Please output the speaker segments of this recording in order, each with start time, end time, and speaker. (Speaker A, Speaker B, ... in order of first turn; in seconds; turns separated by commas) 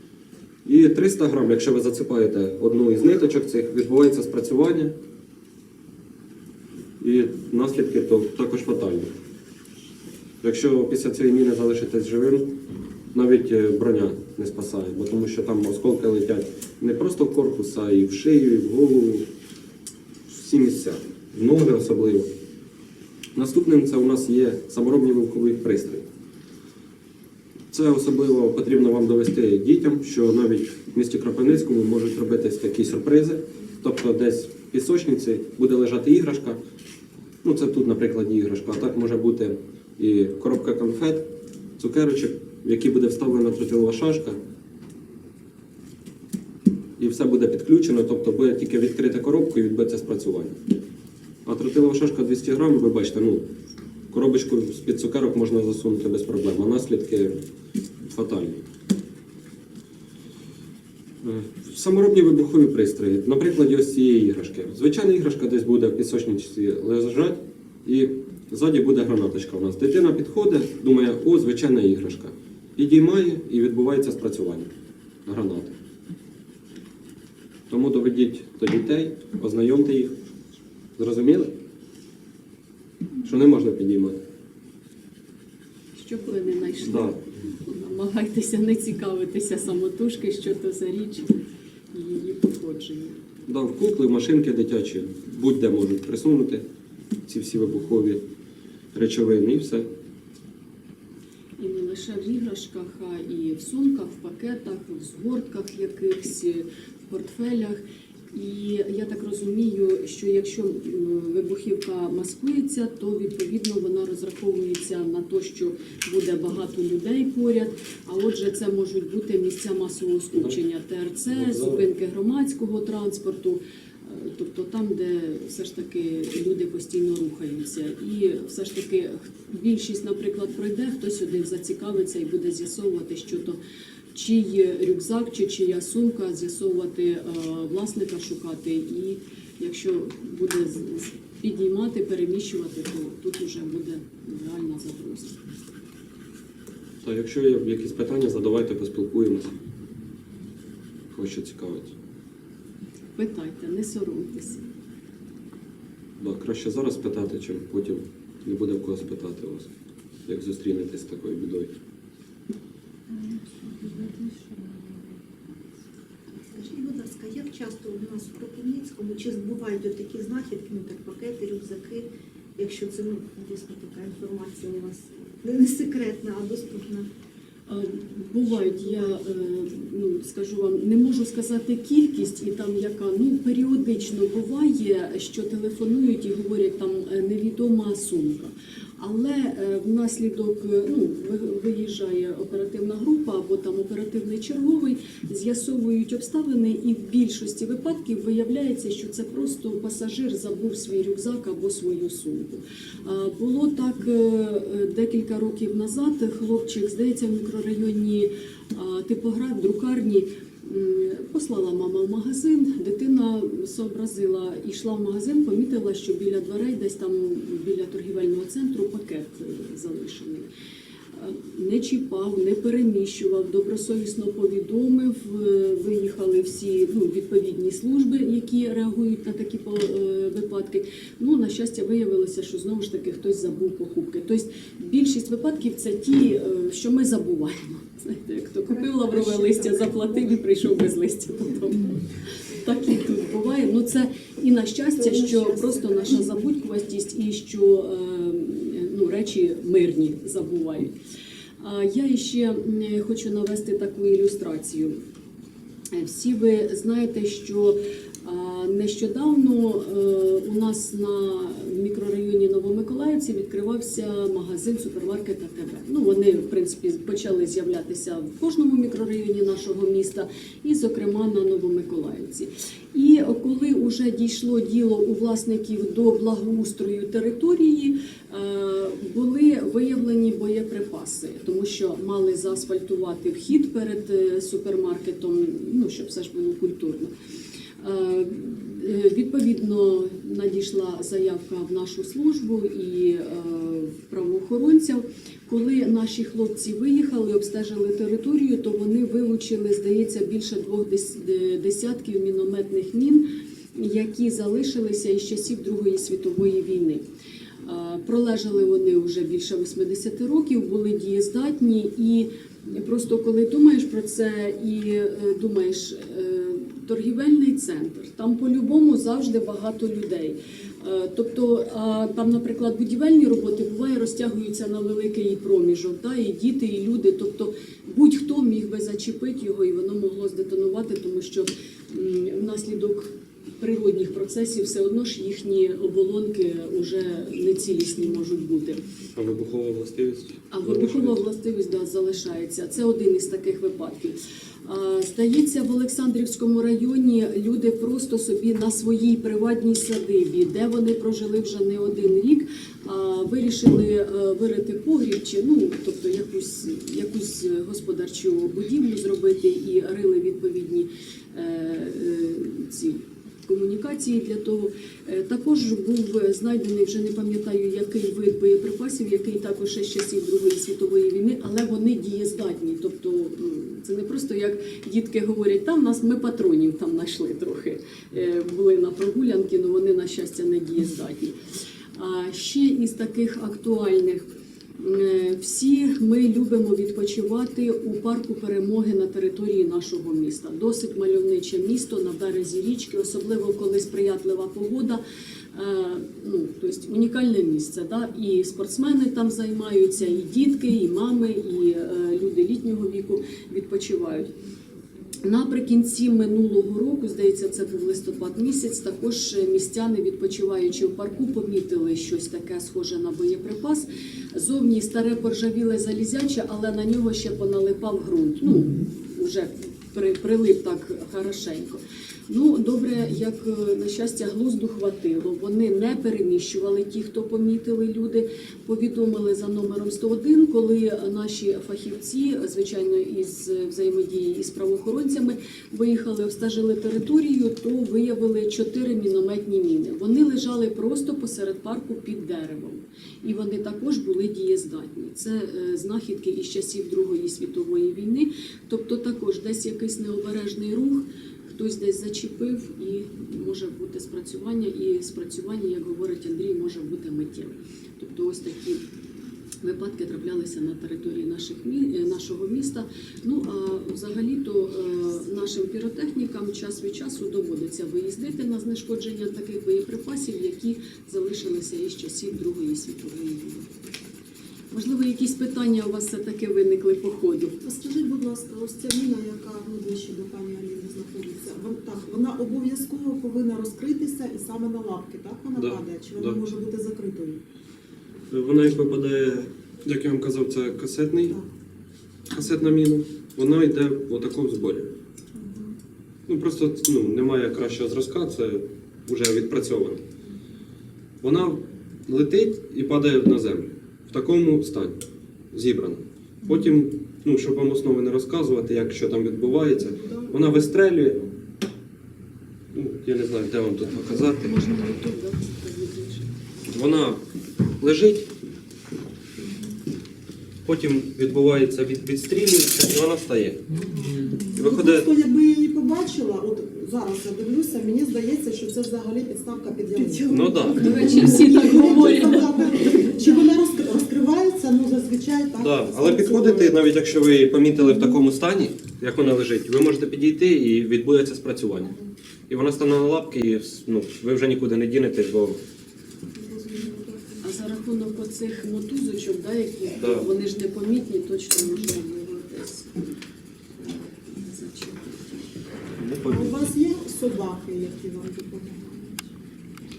Speaker A: 0.6-4.9, Speaker A: 7.0-9.1, Speaker A: 10.4-12.6, Speaker A: 13.1-19.3, Speaker A: 20.3-22.3, Speaker A: 23.4-26.1, Speaker A: 27.7-36.6, Speaker A: 37.4-44.4, Speaker A: 47.0-50.6, Speaker A: 51.4-53.5, Speaker A: 54.1-57.4, Speaker A: 58.1-58.6, Speaker A: 61.2-74.7, Speaker A: 75.2-75.7, Speaker A: 77.7-80.1, Speaker A: 81.0-81.5, Speaker A: 83.2-84.2, Speaker B: 85.9-91.3, Speaker A: 86.8-87.2, Speaker B: 91.9-93.2, Speaker A: 93.5-96.6, Speaker A: 97.3-98.2, Speaker A: 98.9-99.9, Speaker B: 101.6-107.8, Speaker B: 108.3-133.6, Speaker A: 121.3-121.8, Speaker B: 134.1-145.4, Speaker A: 147.0-149.5, Speaker A: 151.1-151.9, Speaker B: 153.2-154.7, Speaker A: 156.2-159.7, Speaker A: 160.3-161.7, Speaker C: 163.2-165.1, Speaker D: 166.5-177.1, Speaker B: 177.7-220.5, Speaker B: 221.1-250.9, Speaker B: 251.6-254.9, Speaker B: 255.9-287.1, Speaker B: 287.8-307.0, Speaker B: 307.6-338.8, Speaker A: 339.1-341.2, Speaker B: 340.5-381.3, Speaker B: 381.9-384.2, Speaker B: 384.8-395.0, Speaker B: 395.5-404.3, Speaker B: 405.2-458.8, Speaker B: 459.6-473.7, Speaker B: 474.7-477.6, Speaker C: 477.6-487.4, Speaker A: 485.6-486.4, Speaker A: 488.3-491.4, Speaker A: 492.3-494.9, Speaker C: 495.4-495.7, Speaker A: 496.3-500.0, Speaker A: 501.2-504.9, Speaker A: 505.5-511.2, Speaker A: 512.7-514.6, Speaker B: 514.1-516.3, Speaker A: 516.7-517.2, Speaker A: 517.8-518.3, Speaker A: 520.6-523.9, Speaker C: 523.8-536.8, Speaker A: 524.5-525.1, Speaker D: 530.1-530.6, Speaker A: 530.3-531.2, Speaker B: 530.7-533.2, Speaker A: 535.6-541.9, Speaker A: 542.5-545.6, Speaker C: 546.3-547.4, Speaker B: 547.4-552.9, Speaker A: 550.0-550.2, Speaker B: 553.8-555.5, Speaker A: 556.0-556.6, Speaker C: 556.3-559.2